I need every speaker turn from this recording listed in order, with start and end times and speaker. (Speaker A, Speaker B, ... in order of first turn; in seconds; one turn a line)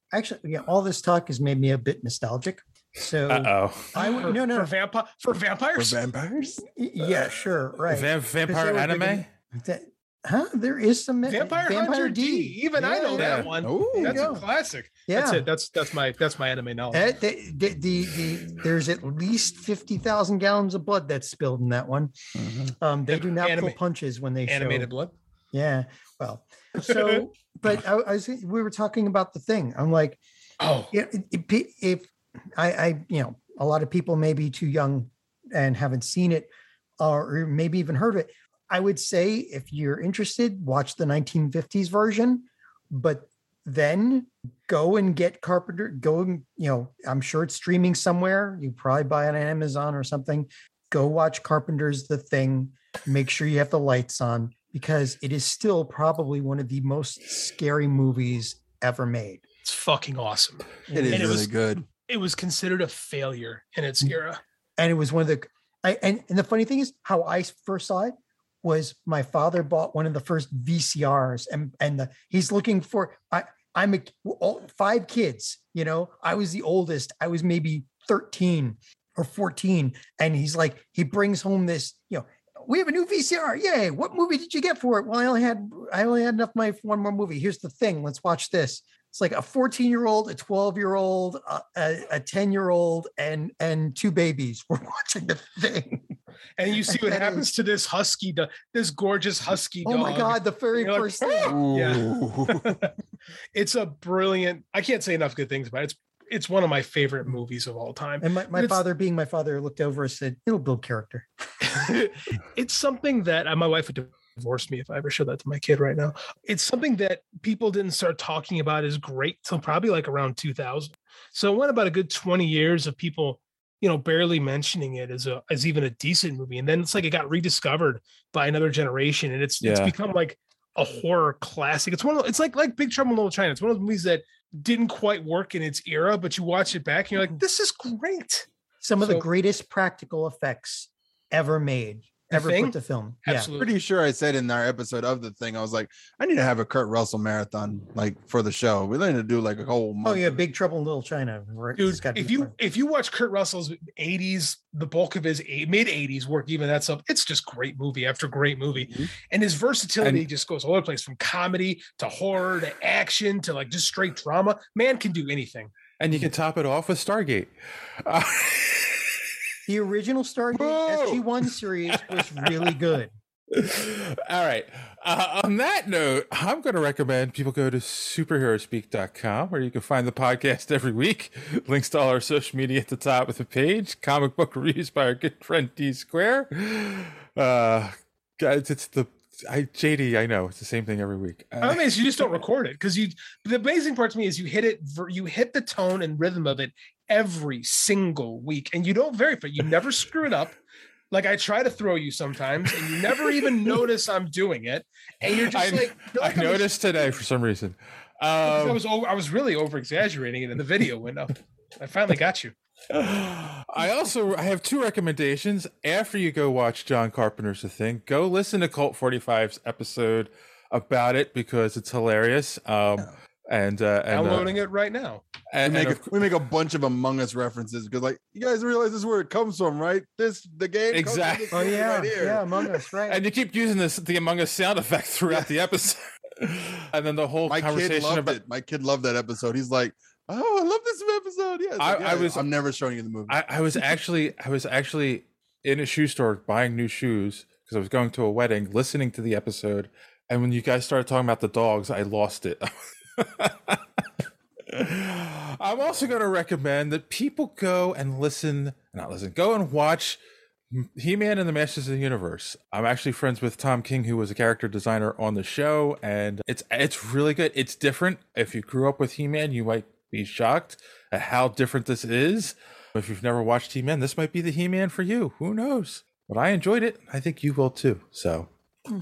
Speaker A: 0.1-4.7
Speaker B: 3.3-4.0
Speaker C: 4.0-6.0
Speaker D: 5.8-6.6
Speaker A: 6.7-14.4
Speaker B: 7.9-9.3
Speaker C: 11.2-17.1
Speaker B: 13.2-13.5
Speaker D: 13.6-14.4
Speaker A: 15.1-15.5
Speaker A: 16.9-22.1
Speaker D: 22.4-22.7
Speaker A: 22.8-24.9
Speaker C: 23.1-23.8
Speaker C: 24.5-25.1
Speaker A: 25.5-30.2
Speaker C: 30.6-30.9
Speaker A: 30.9-36.5
Speaker A: 37.0-59.4
Speaker C: 59.6-61.5
Speaker A: 60.9-61.4
Speaker D: 60.9-61.9
Speaker C: 62.1-64.4
Speaker A: 64.8-96.1
Speaker C: 96.6-102.9
Speaker A: 96.9-97.5
Speaker A: 99.8-101.6
Speaker D: 101.5-102.8
Speaker C: 103.5-108.8
Speaker A: 108.2-111.3
Speaker C: 111.6-138.5
Speaker B: 129.6-129.9
Speaker A: 138.8-143.5
Speaker C: 139.0-139.2
Speaker C: 142.3-143.7
Speaker D: 143.6-150.4
Speaker A: 150.0-152.5
Speaker C: 151.8-165.7
Speaker B: 160.0-160.3
Speaker B: 166.0-167.5
Speaker B: 168.0-169.3
Speaker A: 169.7-173.1
Speaker B: 170.6-171.2
Speaker B: 173.5-192.4
Speaker C: 191.6-200.6
Speaker C: 201.1-207.1
Speaker B: 205.3-208.8
Speaker C: 208.5-212.5
Speaker B: 212.9-224.6
Speaker C: 224.1-225.2
Speaker B: 225.5-226.1
Speaker D: 225.7-232.5
Speaker B: 230.9-231.7
Speaker A: 231.5-233.2
Speaker B: 233.1-238.4
Speaker D: 237.5-243.3
Speaker B: 241.8-242.5
Speaker B: 243.3-254.0
Speaker B: 254.7-260.2
Speaker B: 260.7-278.5